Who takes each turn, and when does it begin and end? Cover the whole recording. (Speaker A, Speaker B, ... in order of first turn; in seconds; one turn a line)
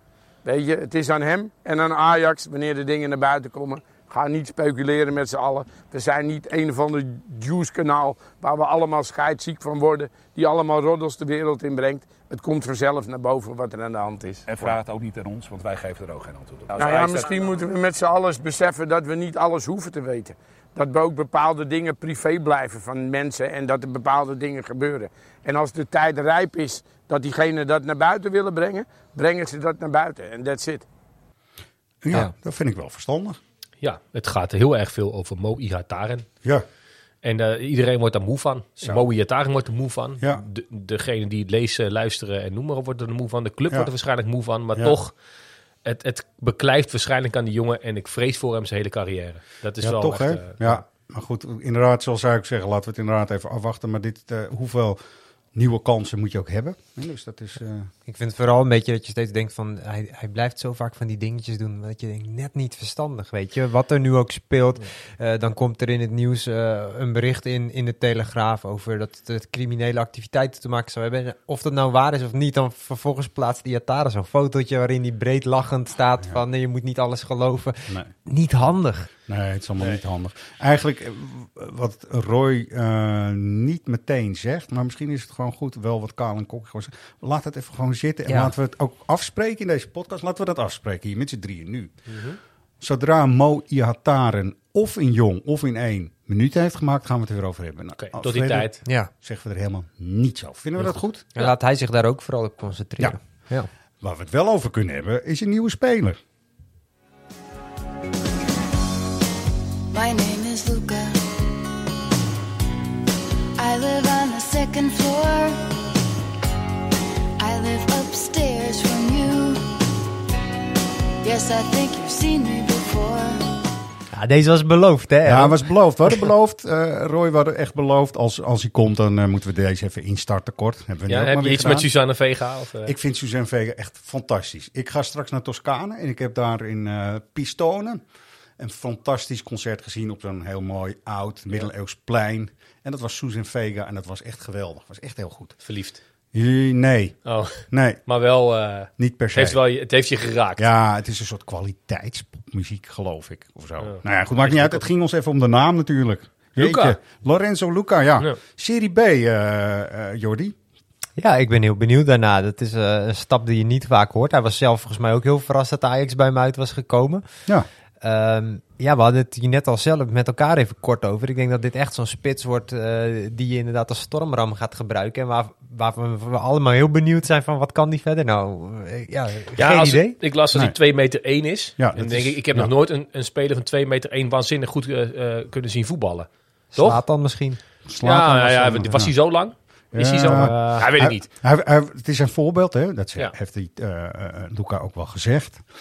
Speaker A: 0.4-14.8
Speaker B: 14.3-17.6
Speaker A: 16.7-30.8
Speaker C: 32.0-33.4
Speaker D: 33.8-36.3
Speaker D: 37.2-45.1
Speaker D: 45.8-50.8
Speaker C: 49.8-55.0
Speaker C: 55.5-57.9
Speaker E: 58.0-79.1
Speaker C: 79.3-91.9
Speaker E: 88.3-88.5
Speaker D: 92.1-92.4
Speaker C: 92.8-101.3
Speaker D: 98.0-98.8
Speaker D: 100.8-101.5
Speaker E: 101.3-103.7
Speaker C: 104.0-106.2
Speaker F: 109.9-111.2
Speaker F: 113.6-115.7
Speaker F: 117.4-119.6
Speaker F: 121.2-123.5
Speaker E: 124.1-125.6
Speaker C: 125.2-131.9
Speaker D: 131.1-132.9
Speaker C: 132.8-138.0
Speaker C: 138.6-145.6
Speaker D: 145.6-146.0
Speaker C: 146.3-148.0
Speaker D: 147.2-150.7
Speaker C: 149.0-149.6
Speaker C: 150.6-160.5
Speaker D: 153.8-154.8
Speaker D: 156.6-157.0
Speaker E: 161.2-167.2
Speaker E: 168.0-180.1
Speaker D: 179.6-187.0
Speaker C: 181.8-182.7
Speaker E: 186.7-187.6
Speaker C: 187.9-189.1
Speaker D: 188.0-191.3
Speaker C: 189.9-195.6
Speaker E: 190.3-190.9